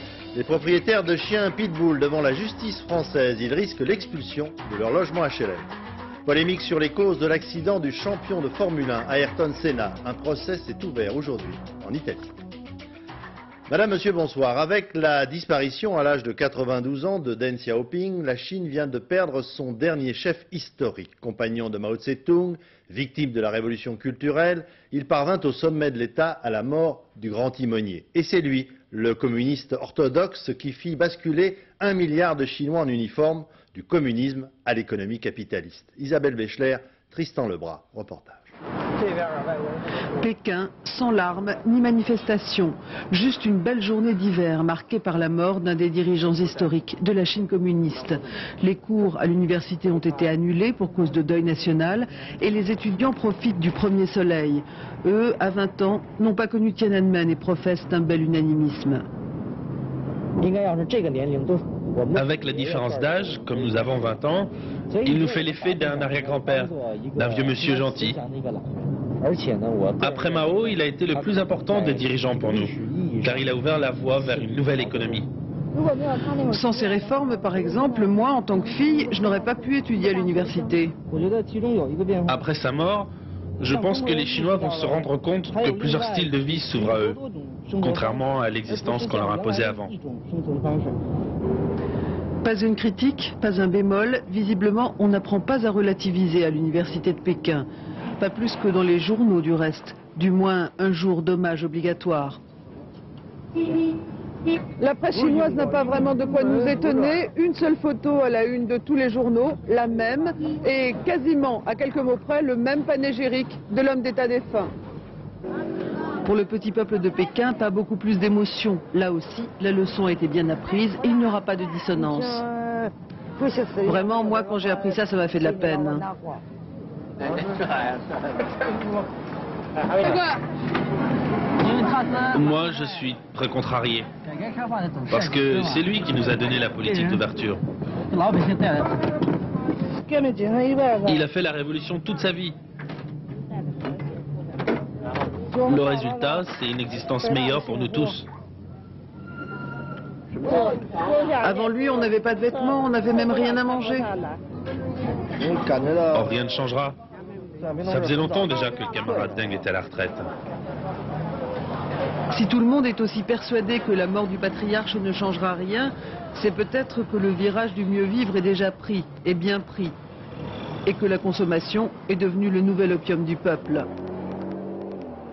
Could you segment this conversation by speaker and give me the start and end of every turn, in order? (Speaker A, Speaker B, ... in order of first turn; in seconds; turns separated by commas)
Speaker A: 0.3-5.7, Speaker A: 6.2-12.3, Speaker A: 13.7-38.5, Speaker B: 40.2-59.1, Speaker C: 62.1-68.2, Speaker C: 70.0-75.3, Speaker B: 76.5-81.0, Speaker C: 82.2-89.9, Speaker B: 92.4-97.7, Speaker B: 98.2-102.4, Speaker B: 104.8-114.7, Speaker B: 116.2-122.4, Speaker B: 123.8-126.0, Speaker C: 132.2-134.1, Speaker C: 135.1-137.6, Speaker C: 141.0-142.5, Speaker C: 145.6-148.3, Speaker B: 151.4-154.1, Speaker C: 156.1-156.9, Speaker C: 157.8-160.3, Speaker B: 162.3-169.9, Speaker B: 170.8-173.9